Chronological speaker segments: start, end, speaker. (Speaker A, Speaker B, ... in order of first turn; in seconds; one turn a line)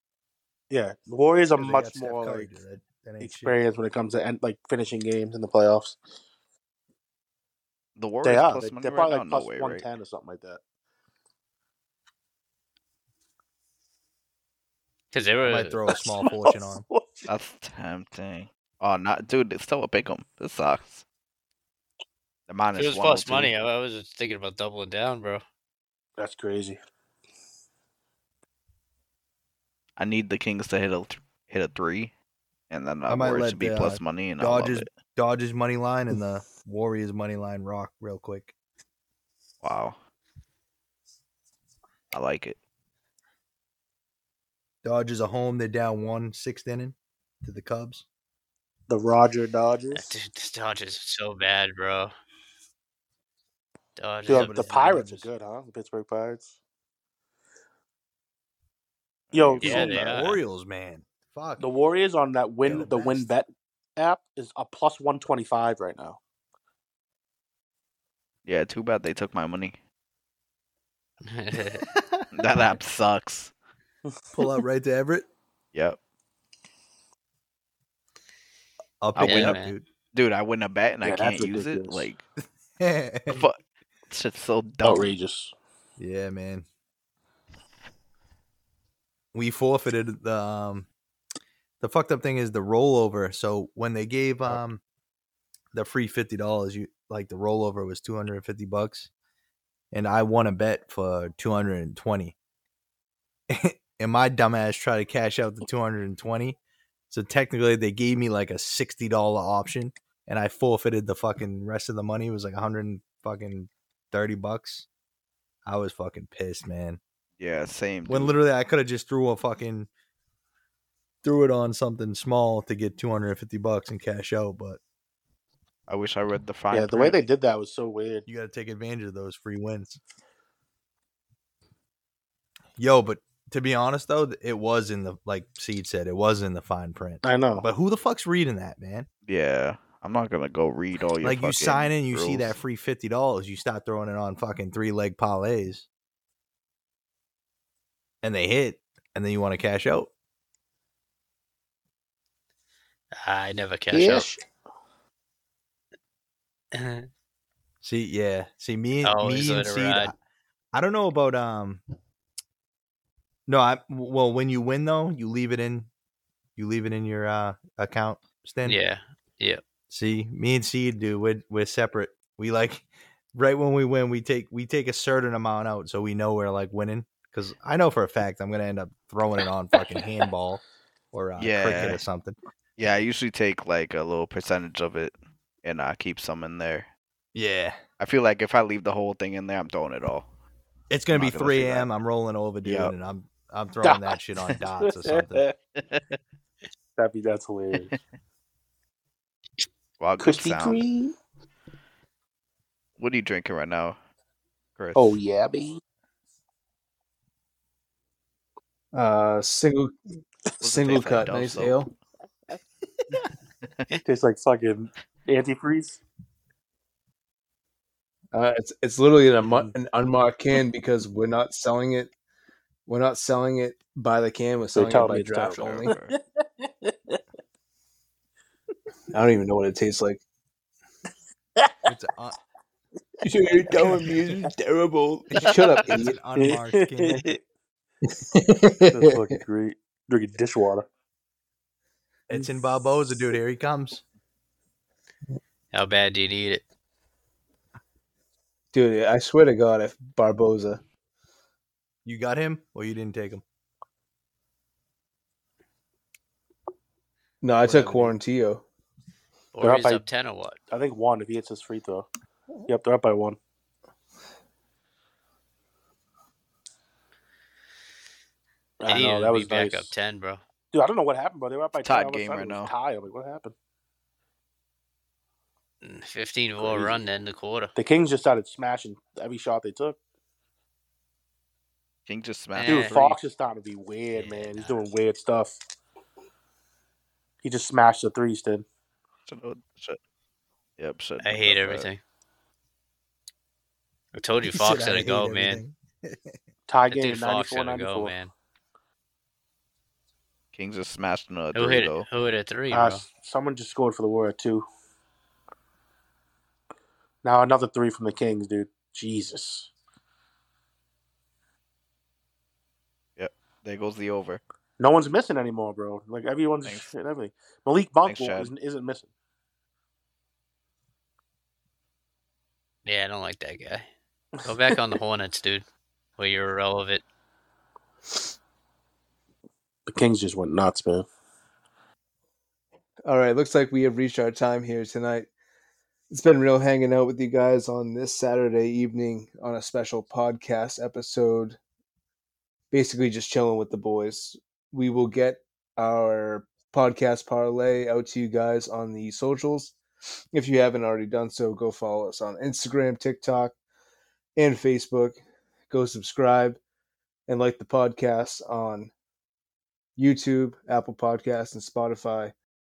Speaker A: 0.7-2.5
Speaker B: 1.6-3.5
Speaker A: 3.2-6.0
Speaker C: 8.0-9.9
Speaker A: 8.2-10.6
Speaker D: 15.1-16.0
Speaker B: 15.4-16.8
Speaker A: 15.9-17.3
Speaker C: 17.3-21.0
Speaker C: 22.5-23.5
Speaker D: 22.8-25.4
Speaker A: 26.2-26.8
Speaker C: 30.0-32.1
Speaker C: 32.7-34.9
Speaker B: 33.1-38.5
Speaker C: 39.6-40.0
Speaker C: 42.1-42.6
Speaker B: 44.8-48.0
Speaker A: 48.9-50.0
Speaker D: 49.9-52.1
Speaker D: 54.0-55.2
Speaker A: 54.3-56.5
Speaker B: 54.3-55.2
Speaker C: 59.3-59.6
Speaker A: 59.3-60.1
Speaker B: 59.6-61.7
Speaker D: 59.6-60.4
Speaker A: 61.6-66.2
Speaker B: 62.6-63.3
Speaker C: 68.4-69.8
Speaker D: 71.2-71.8
Speaker C: 71.8-73.5
Speaker B: 74.3-75.3
Speaker C: 75.7-76.0
Speaker B: 79.0-79.8
Speaker C: 79.1-79.6
Speaker D: 79.2-79.7
Speaker C: 80.1-82.2
Speaker A: 81.0-82.1
Speaker B: 82.8-83.4
Speaker C: 83.3-85.1
Speaker A: 84.8-85.5
Speaker B: 86.0-86.7
Speaker B: 89.3-90.9
Speaker B: 91.8-94.8
Speaker B: 95.7-99.1
Speaker B: 99.9-102.3
Speaker B: 103.5-106.6
Speaker B: 107.1-114.9
Speaker B: 115.7-117.0
Speaker C: 117.4-118.4
Speaker B: 118.1-119.9
Speaker B: 121.2-124.8
Speaker C: 125.9-127.2
Speaker A: 126.7-128.2
Speaker B: 128.2-130.0
Speaker B: 132.8-139.1
Speaker A: 137.2-137.7
Speaker C: 139.3-142.6
Speaker B: 141.2-145.9
Speaker B: 148.2-150.1
Speaker D: 153.2-154.3
Speaker A: 153.9-154.4
Speaker D: 156.7-157.1
Speaker B: 157.8-160.1
Speaker D: 159.0-160.1
Speaker B: 160.7-161.8
Speaker B: 163.5-165.9
Speaker B: 166.6-168.8
Speaker D: 168.6-169.6
Speaker B: 169.9-182.3
Speaker C: 181.4-182.0
Speaker C: 182.8-186.9
Speaker B: 187.3-187.8
Speaker C: 188.0-190.2
Speaker B: 190.9-195.5
Speaker C: 191.1-191.9
Speaker C: 192.6-192.9
Speaker A: 193.8-194.2
Speaker A: 194.8-195.5
Speaker C: 195.7-196.2
Speaker A: 197.0-197.9
Speaker C: 197.7-198.0
Speaker C: 200.0-200.8
Speaker A: 200.2-201.1
Speaker C: 203.0-204.0
Speaker C: 204.8-205.2
Speaker A: 204.9-205.8
Speaker E: 208.9-209.9
Speaker C: 210.6-211.8
Speaker E: 210.6-211.9
Speaker A: 214.0-216.0
Speaker E: 218.3-222.1
Speaker E: 222.9-225.9
Speaker A: 224.7-227.2
Speaker C: 225.4-226.1
Speaker E: 229.1-230.2
Speaker B: 231.8-232.3
Speaker E: 233.2-236.2
Speaker A: 233.7-234.2
Speaker B: 235.8-237.3
Speaker A: 236.4-237.4
Speaker E: 238.1-239.1
Speaker A: 238.9-240.9
Speaker B: 242.3-244.0
Speaker D: 245.7-246.6
Speaker E: 248.7-250.8
Speaker B: 252.0-253.4
Speaker E: 257.4-258.6
Speaker D: 259.5-260.6
Speaker A: 259.6-260.1
Speaker A: 260.7-262.1
Speaker A: 262.7-263.4
Speaker A: 268.8-269.9
Speaker D: 268.9-270.4
Speaker A: 270.7-273.5
Speaker C: 271.8-272.7
Speaker D: 275.8-277.7
Speaker A: 276.6-277.0
Speaker A: 277.7-280.0
Speaker C: 282.1-283.0
Speaker D: 282.5-283.2
Speaker A: 282.7-285.6
Speaker D: 284.1-284.8
Speaker A: 287.4-288.6
Speaker C: 289.3-290.0
Speaker C: 290.8-291.9
Speaker D: 291.2-292.0
Speaker D: 294.1-295.6
Speaker B: 294.5-296.4
Speaker A: 296.7-298.2
Speaker D: 296.9-298.3
Speaker C: 300.5-302.1
Speaker D: 301.5-303.0
Speaker A: 302.7-304.6
Speaker A: 307.2-309.7
Speaker C: 313.2-314.4
Speaker A: 314.8-319.1
Speaker C: 318.1-318.5
Speaker D: 322.8-323.9
Speaker D: 324.4-325.6
Speaker D: 326.2-327.0
Speaker A: 329.9-331.1
Speaker E: 333.0-335.3
Speaker E: 336.1-341.6
Speaker E: 342.7-349.8
Speaker E: 350.3-353.5
Speaker E: 354.4-355.2
Speaker E: 355.7-356.6
Speaker E: 357.3-358.9
Speaker E: 359.9-362.3